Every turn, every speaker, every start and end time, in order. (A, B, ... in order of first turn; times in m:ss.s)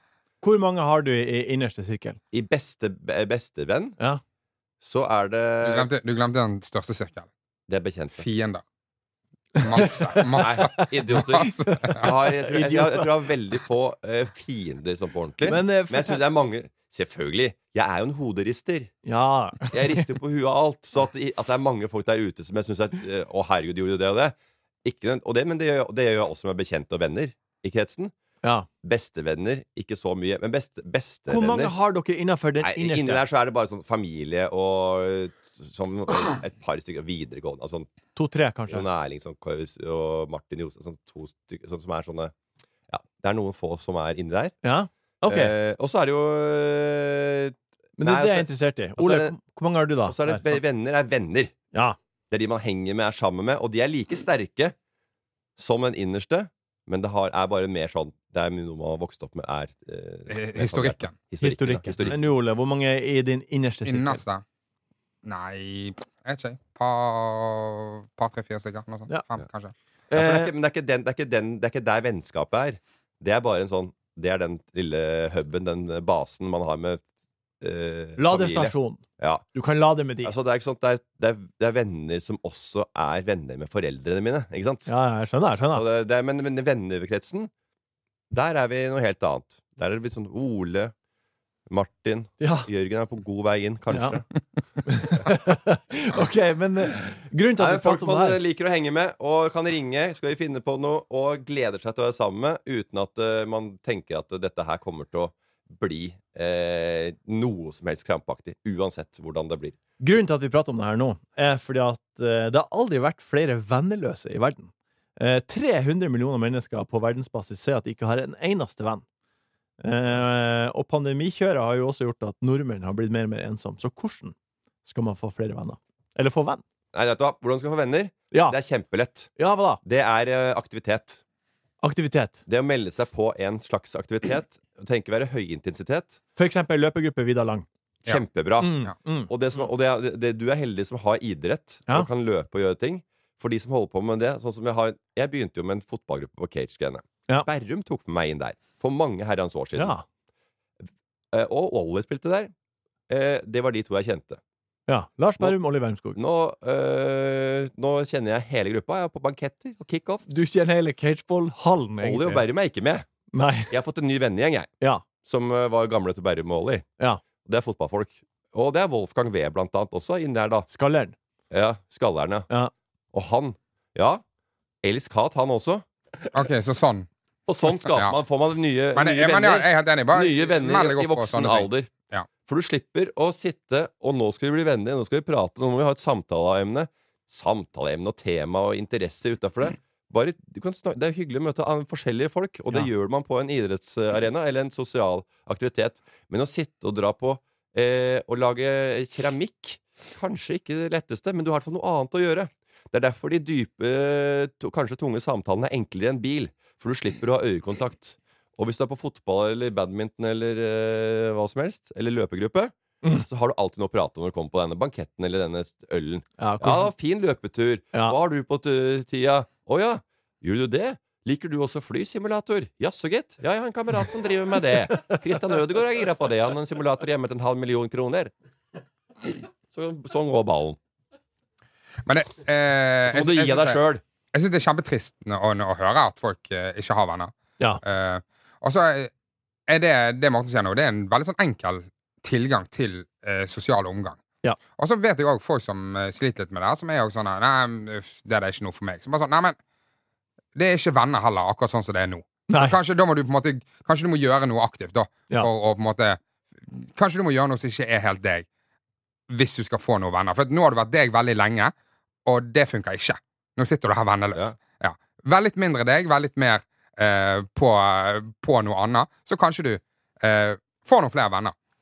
0:00.4-0:02.2 A
0:02.3-0:04.0 B
0:04.8-0:05.9 B
0:05.6-0:07.3 C
0:07.7-0:08.2 B
0:08.2-0:08.6 C
0:09.6-0:13.2 A
0:09.6-0:12.0 C
0:10.4-0:18.9 B
0:15.4-0:16.2 A
0:19.0-0:20.0 A
0:19.7-0:28.1 B
0:28.8-0:31.7 B
0:31.3-0:33.2 A
0:32.6-0:37.9 B
0:38.2-0:38.8 A
0:38.7-0:42.3 B
0:42.9-0:44.6 B
0:44.6-0:45.5 A
0:45.3-0:49.4 B
0:48.0-0:50.6 A
0:50.0-0:51.5 B
0:52.3-0:54.7 B
0:55.6-1:02.2 B
1:00.3-1:01.2 C
1:01.4-1:04.2 A
1:03.8-1:04.4 C
1:05.2-1:09.7 C
1:10.1-1:10.5 A
1:10.1-1:17.0 B
1:17.6-1:19.4 B
1:18.2-1:19.0 A
1:19.5-1:20.3 A
1:20.2-1:24.9 B
1:24.9-1:25.8 A
1:25.7-1:27.5 B
1:28.3-1:30.9 B
1:31.7-1:34.2 B
1:32.4-1:32.7 A
1:33.9-1:34.2 A
1:34.8-1:38.4 A
1:37.6-1:49.8 B
1:50.0-1:59.0 A
1:59.8-2:06.6 A
2:06.9-2:09.3 B
2:09.4-2:09.8 A
2:09.8-2:11.2 B
2:11.8-2:12.4 A
2:12.5-2:16.2 B
2:16.4-2:17.6 A
2:18.0-2:30.0 B
2:18.6-2:19.3 A
2:29.8-2:30.0 A
2:31.3-2:32.5 B
2:33.1-2:34.4 B
2:34.9-2:36.2 A
2:36.1-2:40.3 B
2:40.3-2:42.4 A
2:42.0-2:43.0 B
2:43.3-2:43.7 A
2:43.7-2:46.8 B
2:47.4-2:50.7 B
2:50.7-2:51.1 A
2:51.5-2:52.5 B
2:53.1-2:54.2 B
2:54.8-2:55.8 B
2:56.3-2:57.1 C
2:57.5-3:01.9 B
2:57.8-2:58.2 C
2:58.9-3:02.3 C
3:02.4-3:32.7 B
3:33.2-3:48.3 B
3:36.4-3:36.9 A
3:49.7-3:50.8 B
3:52.0-3:53.8 C
3:53.1-3:54.0 B
3:54.3-3:59.1 C
3:59.7-4:04.2 C
4:04.8-4:09.6 C
4:10.5-4:18.5 C
4:12.5-4:12.8 A
4:19.3-4:21.7 C
4:22.2-4:31.5 C